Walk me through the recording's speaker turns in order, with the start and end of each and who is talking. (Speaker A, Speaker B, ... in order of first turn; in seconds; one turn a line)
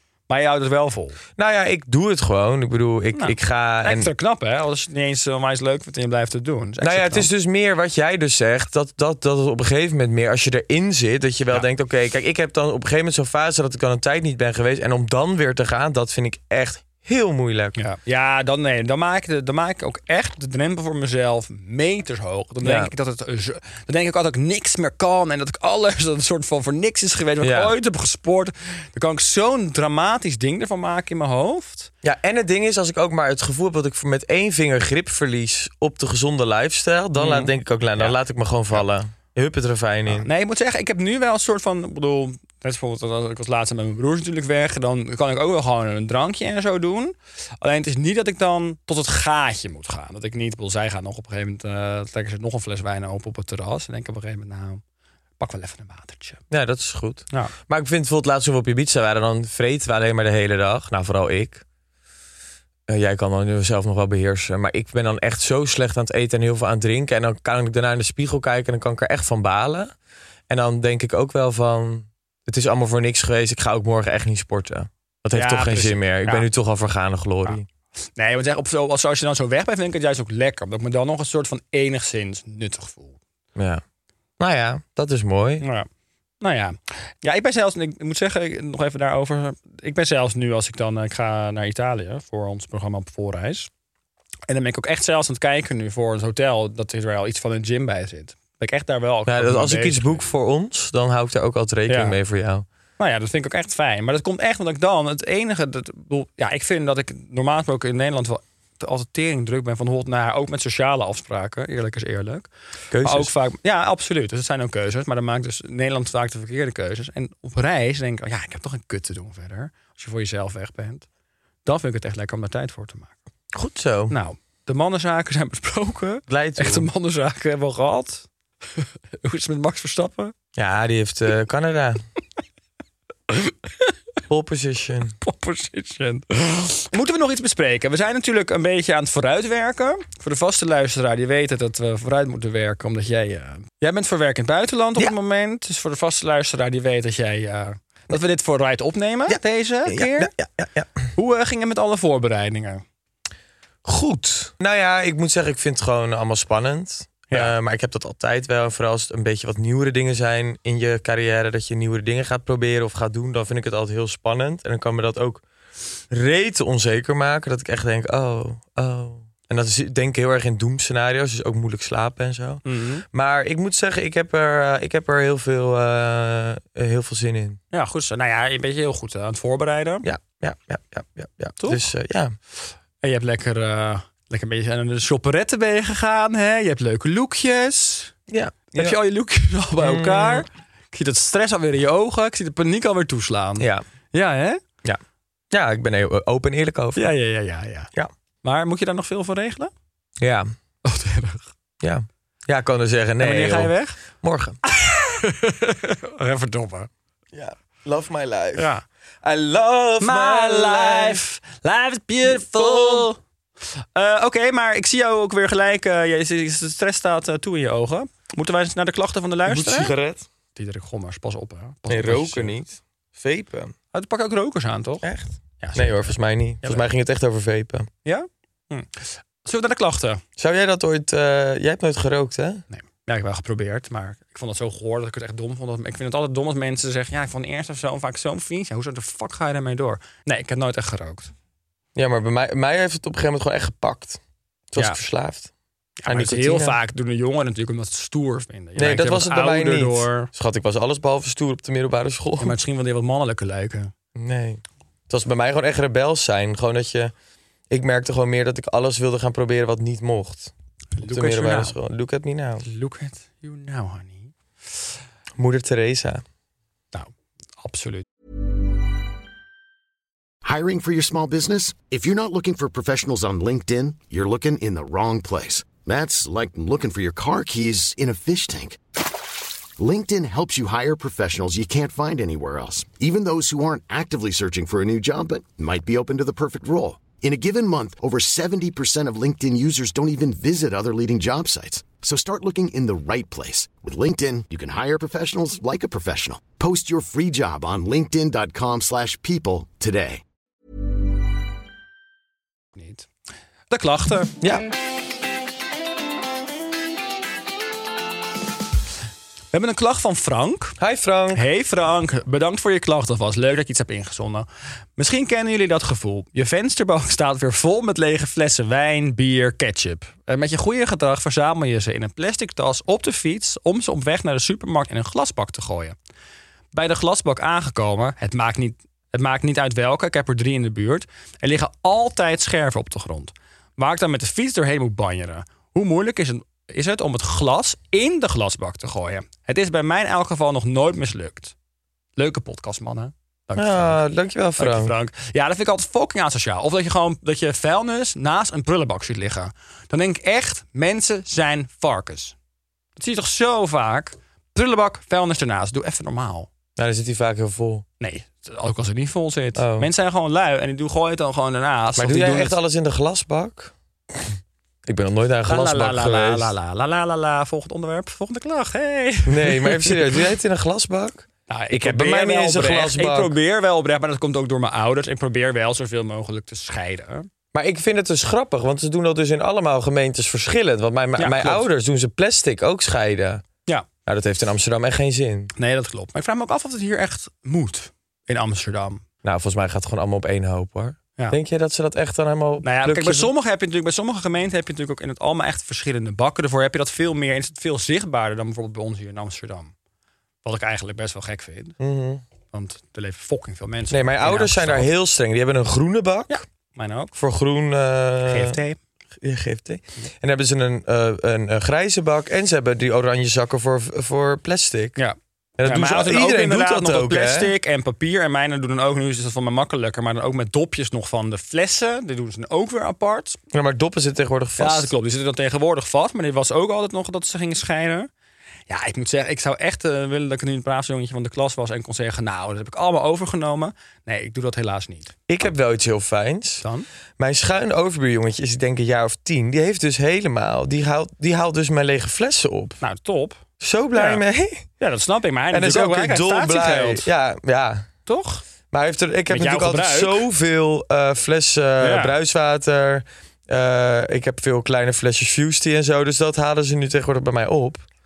Speaker A: 0.3-1.2
Speaker B: 1.4-4.1
Speaker A: 3.1-7.3
Speaker B: 6.8-17.8
Speaker A: 17.8-31.9
Speaker B: 22.6-22.9
Speaker B: 27.4-27.7
Speaker B: 32.0-40.3
Speaker A: 37.2-38.2
Speaker A: 40.1-54.8
Speaker A: 55.4-56.4
Speaker B: 56.5-61.6
Speaker B: 62.9-69.9
Speaker B: 70.5-77.6
Speaker A: 75.3-76.5
Speaker A: 78.2-83.2
Speaker B: 83.5-83.8
Speaker B: 84.4-85.6
Speaker A: 85.6-85.9
Speaker A: 86.4-93.7
Speaker A: 94.5-100.2
Speaker B: 99.2-102.7
Speaker A: 101.9-102.2
Speaker A: 103.0-112.5
Speaker B: 112.9-113.3
Speaker A: 113.0-121.0
Speaker A: 121.6-123.1
Speaker B: 123.5-124.2
Speaker A: 124.1-128.3
Speaker B: 126.3-126.9
Speaker A: 128.8-130.3
Speaker B: 130.5-132.0
Speaker A: 133.3-133.9
Speaker B: 134.3-135.2
Speaker A: 135.2-150.3
Speaker B: 149.3-151.1
Speaker A: 151.1-152.8
Speaker B: 153.8-165.4
Speaker B: 166.1-177.6
Speaker A: 172.6-173.0
Speaker A: 177.7-180.1
Speaker B: 180.0-182.3
Speaker A: 181.6-181.8
Speaker A: 183.0-188.1
Speaker B: 188.3-189.0
Speaker A: 188.7-194.6
Speaker B: 189.8-190.4
Speaker B: 193.6-193.8
Speaker B: 194.8-197.1
Speaker A: 196.9-197.9
Speaker A: 198.4-199.7
Speaker B: 200.2-200.5
Speaker A: 200.8-201.4
Speaker B: 201.8-204.6
Speaker A: 203.2-204.0
Speaker A: 204.6-206.9
Speaker B: 207.3-208.7
Speaker A: 208.6-208.8
Speaker B: 209.2-211.2
Speaker A: 210.0-213.2
Speaker B: 212.2-213.1
Speaker A: 213.9-219.9
Speaker B: 219.4-220.3
Speaker A: 220.5-222.6
Speaker B: 221.9-223.7
Speaker A: 223.9-225.1
Speaker B: 225.0-227.9
Speaker A: 225.6-226.9
Speaker A: 228.0-230.2
Speaker B: 230.4-232.6
Speaker A: 232.7-241.3
Speaker B: 241.9-245.5
Speaker A: 246.0-250.3
Speaker B: 246.1-246.8
Speaker B: 248.8-252.6
Speaker A: 252.4-253.9
Speaker B: 254.1-257.1
Speaker B: 257.7-262.6
Speaker A: 261.0-261.8
Speaker A: 262.6-264.3
Speaker B: 265.4-266.2
Speaker A: 266.9-268.1
Speaker C: 270.4-278.8
Speaker C: 279.8-300.2
Speaker A: 302.7-303.1
Speaker A: 303.7-304.3
Speaker B: 304.4-304.7
Speaker A: 309.5-310.8
Speaker B: 310.8-311.4
Speaker A: 311.3-314.4
Speaker A: 315.0-325.9
Speaker A: 326.7-341.5
Speaker A: 342.2-344.0
Speaker B: 343.6-344.9
Speaker A: 344.6-352.3
Speaker A: 352.9-356.5
Speaker B: 356.8-357.8
Speaker A: 358.0-362.6
Speaker B: 359.6-359.9
Speaker B: 361.9-364.3
Speaker B: 364.8-366.5
Speaker A: 365.5-369.9
Speaker B: 369.2-373.3
Speaker A: 371.5-377.3
Speaker B: 377.5-383.4
Speaker A: 381.2-381.7
Speaker B: 384.1-385.5
Speaker A: 385.6-389.0
Speaker B: 389.2-393.3
Speaker A: 392.6-399.7
Speaker A: 400.4-401.8
Speaker B: 401.8-402.2
Speaker A: 402.5-404.9
Speaker B: 403.9-406.4
Speaker A: 406.3-407.1
Speaker B: 407.1-408.6
Speaker A: 408.2-408.8
Speaker B: 409.2-415.0
Speaker A: 415.0-423.4
Speaker B: 415.6-417.5
Speaker B: 423.5-424.9
Speaker A: 424.6-428.1
Speaker A: 428.7-435.1
Speaker B: 435.3-436.6
Speaker A: 436.6-436.9
Speaker B: 437.2-442.8
Speaker A: 442.8-443.4
Speaker B: 443.6-444.7
Speaker A: 443.9-444.2
Speaker A: 444.8-447.1
Speaker B: 445.5-447.9
Speaker A: 448.1-448.4
Speaker B: 448.7-457.8
Speaker A: 449.3-450.2
Speaker A: 451.8-452.1